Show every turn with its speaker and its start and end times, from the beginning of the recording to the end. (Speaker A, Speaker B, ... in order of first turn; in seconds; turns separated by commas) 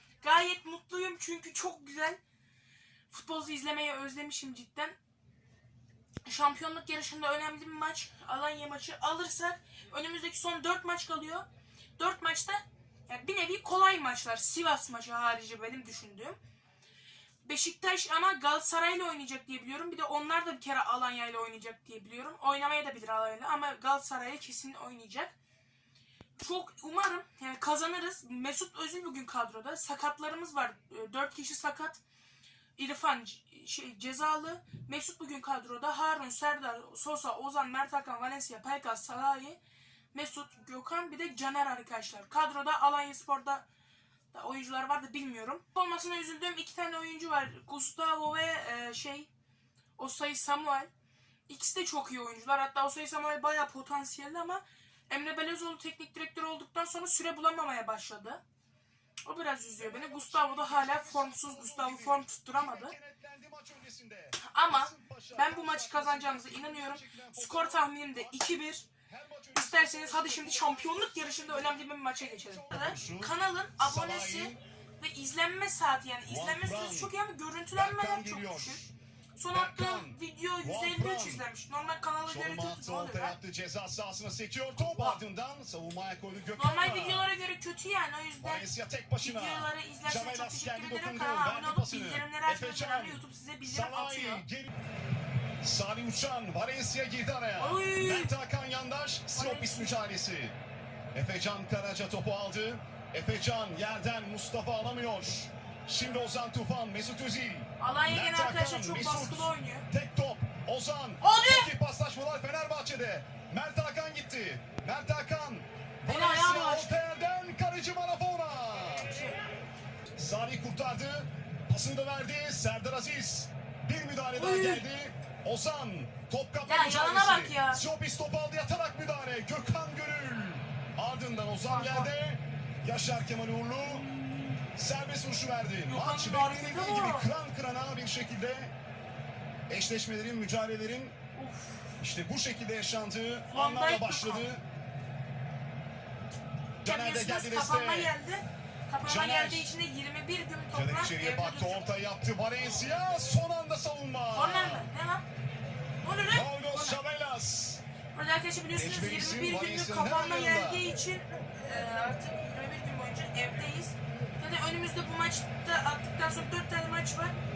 Speaker A: 0.2-2.2, Speaker A: 3.1-5.0, Speaker A: 6.2-11.4, Speaker A: 12.0-16.4, Speaker A: 17.4-25.3, Speaker A: 26.4-32.0, Speaker A: 32.8-39.6, Speaker A: 40.1-43.6, Speaker A: 44.3-49.3, Speaker A: 50.0-50.9, Speaker A: 51.5-58.4, Speaker A: 59.2-62.9, Speaker B: 59.8-74.6, Speaker A: 64.4-68.9, Speaker A: 69.5-78.8, Speaker B: 76.2-77.1, Speaker B: 77.7-78.9, Speaker A: 79.4-83.3, Speaker B: 79.5-81.5, Speaker B: 82.2-87.2, Speaker A: 84.8-85.2, Speaker A: 86.6-88.7, Speaker B: 88.4-94.7, Speaker A: 89.2-94.4, Speaker B: 95.6-100.6, Speaker A: 97.6-98.3, Speaker A: 99.3-99.9, Speaker B: 101.1-119.2, Speaker A: 107.8-109.8, Speaker A: 111.2-111.7, Speaker A: 116.1-117.0, Speaker B: 120.2-134.1, Speaker A: 124.3-124.8, Speaker A: 126.7-127.8, Speaker A: 131.6-132.1, Speaker A: 133.9-134.6, Speaker B: 134.7-138.7, Speaker A: 135.9-137.3, Speaker B: 139.7-141.2, Speaker A: 141.3-141.9, Speaker B: 142.0-144.6, Speaker A: 143.5-144.5, Speaker B: 146.8-148.1, Speaker A: 146.8-151.9, Speaker B: 149.0-149.7, Speaker B: 150.7-154.9, Speaker A: 154.3-155.2, Speaker A: 156.0-157.0, Speaker B: 156.3-157.8, Speaker A: 158.1-167.3, Speaker B: 158.7-160.8